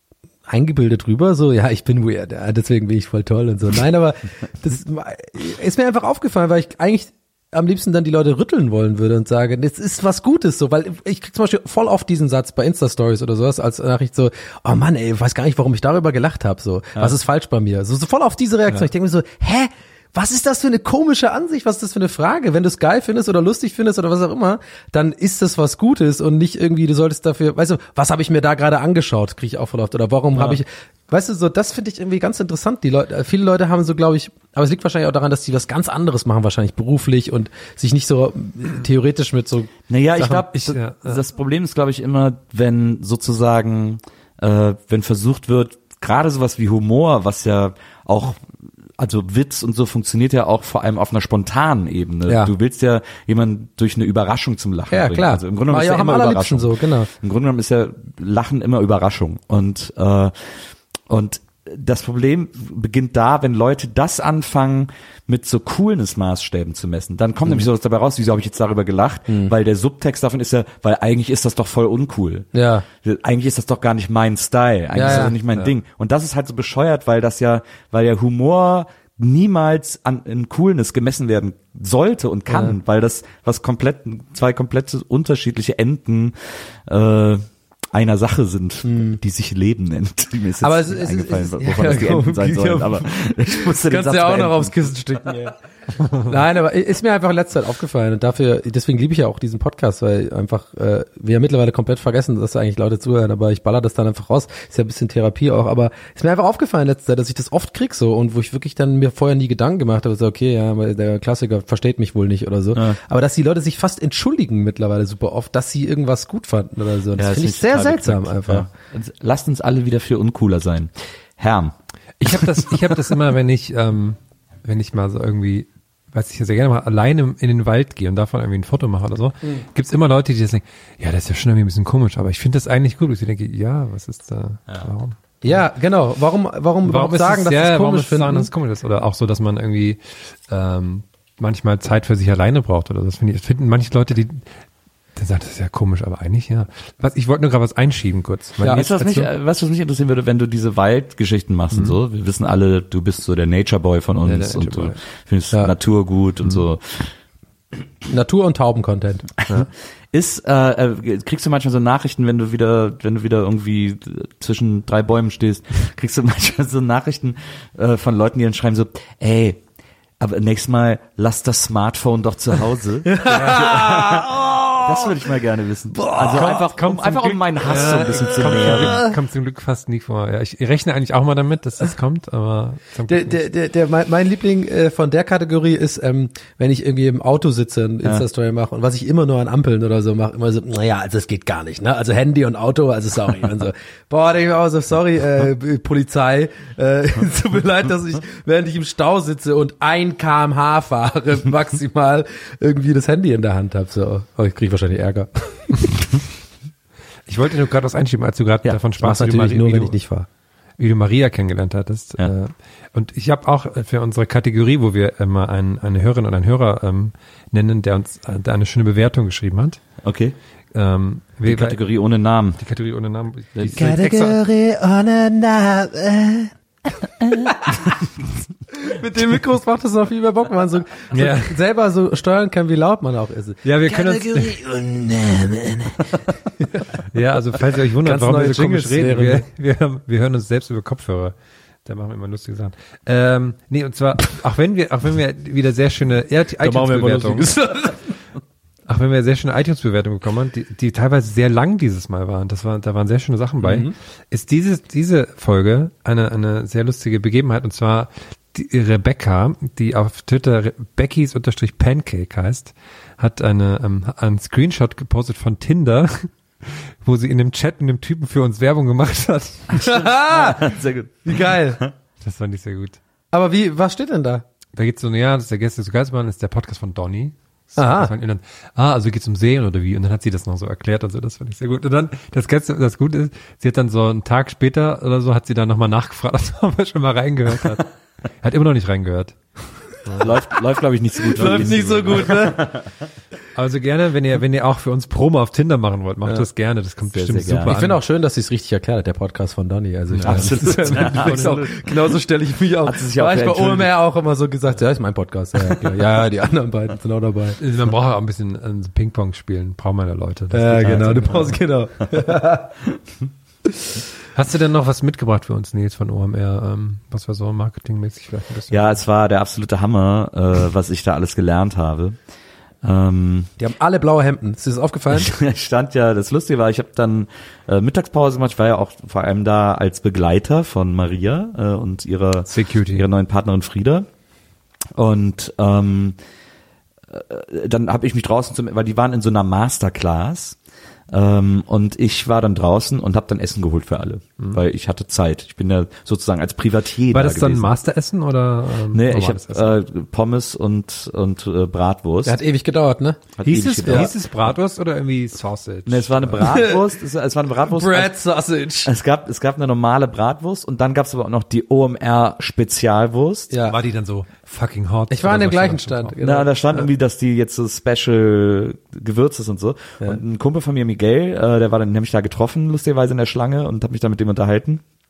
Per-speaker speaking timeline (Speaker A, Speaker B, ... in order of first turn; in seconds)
Speaker A: 0.5-40.4, 52.3-52.5, 54.9-57.1, 69.3-69.5, 72.5-72.8, 74.9-75.3, 82.5-82.8, 88.8-89.2, 90.6-95.5, 96.1-118.7, 135.4-138.5, 158.1-159.4, 173.1-175.1, 175.9-176.7, 178.4-179.1, 183.1-205.8, 209.0-210.3, 223.7-226.5, 227.2-227.9, 228.7-236.9, 238.0-239.4, 246.6-248.0, 253.6-253.9, 269.7-270.7, 271.2-271.8, 273.3-274.4, 277.8-278.1, 291.3-292.7, 297.7-307.6, 310.5-312.7, 323.6-325.3, 352.2-353.2, 353.8-354.1, 356.4-356.8, 357.7-358.9, 363.5-363.8, 365.1-366.8
Speaker B: 30.3-30.6, 39.9-48.4, 49.0-60.5, 61.1-72.5, 73.0-86.3, 86.9-94.8, 117.1-121.7, 122.3-122.7, 148.6-157.1, 159.5-169.6, 170.2-179.0, 220.0-220.3, 221.4-222.6, 223.6-224.0, 269.8-271.9, 290.2-292.8, 297.1-297.8, 300.2-301.8, 302.8-303.9, 318.7-322.2, 322.8-323.5, 325.1-334.1, 334.9-336.2, 337.1-340.6, 341.1-347.7, 348.9-352.4, 353.4-354.1, 355.9-358.2, 358.8-363.5, 366.2-374.8
Speaker C: 40.5-41.2, 75.0-75.7, 122.2-135.6, 136.8-144.4, 145.2-149.3, 154.2-155.0, 176.2-183.4, 207.3-209.9, 210.8-219.8, 220.7-221.8, 222.6-224.4, 231.1-231.6, 233.6-234.6, 237.1-247.5, 248.9-269.9, 272.2-273.0, 274.8-289.4, 290.0-290.3, 293.5-298.0, 300.1-301.6, 307.6-311.6, 314.3-318.9, 332.5-333.0, 347.1-349.8, 353.4-356.7, 363.6-366.1